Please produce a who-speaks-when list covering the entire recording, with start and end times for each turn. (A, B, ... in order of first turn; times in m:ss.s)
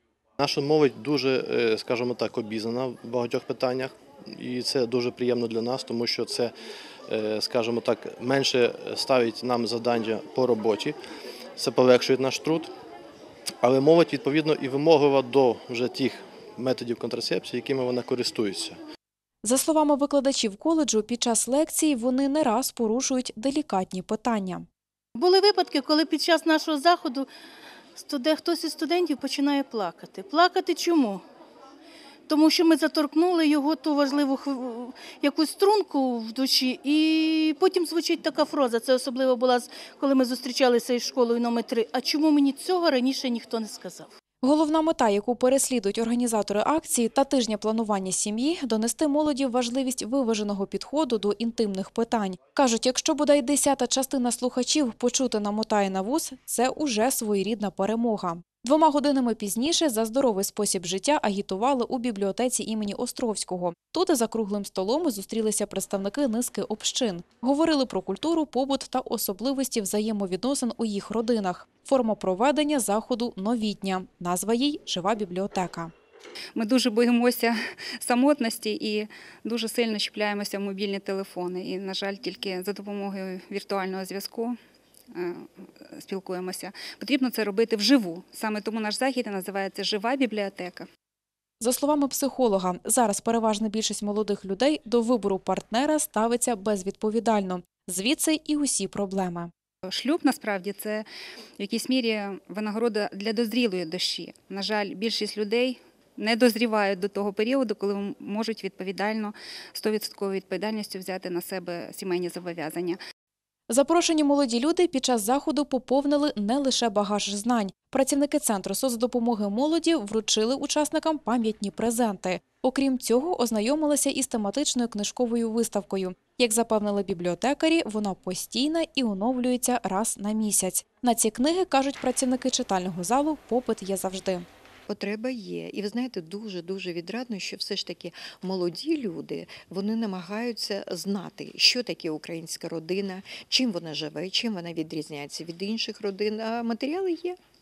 0:00.4-0:06.5 A
0:07.1-0:11.0 A
0:11.6-0:12.7 A
0:13.6-0:18.8 A
0:19.4-0:24.7 B
0:25.2-0:27.3 C
0:28.0-0:31.2 C
0:32.3-0:44.1 C
0:44.4-1:15.9 B
1:16.6-1:24.6 D
1:25.1-1:30.9 D
1:31.6-1:39.5 B
1:39.8-1:41.1 D
1:41.6-1:53.0 D
1:53.7-2:14.5 B
2:14.9-2:27.4 E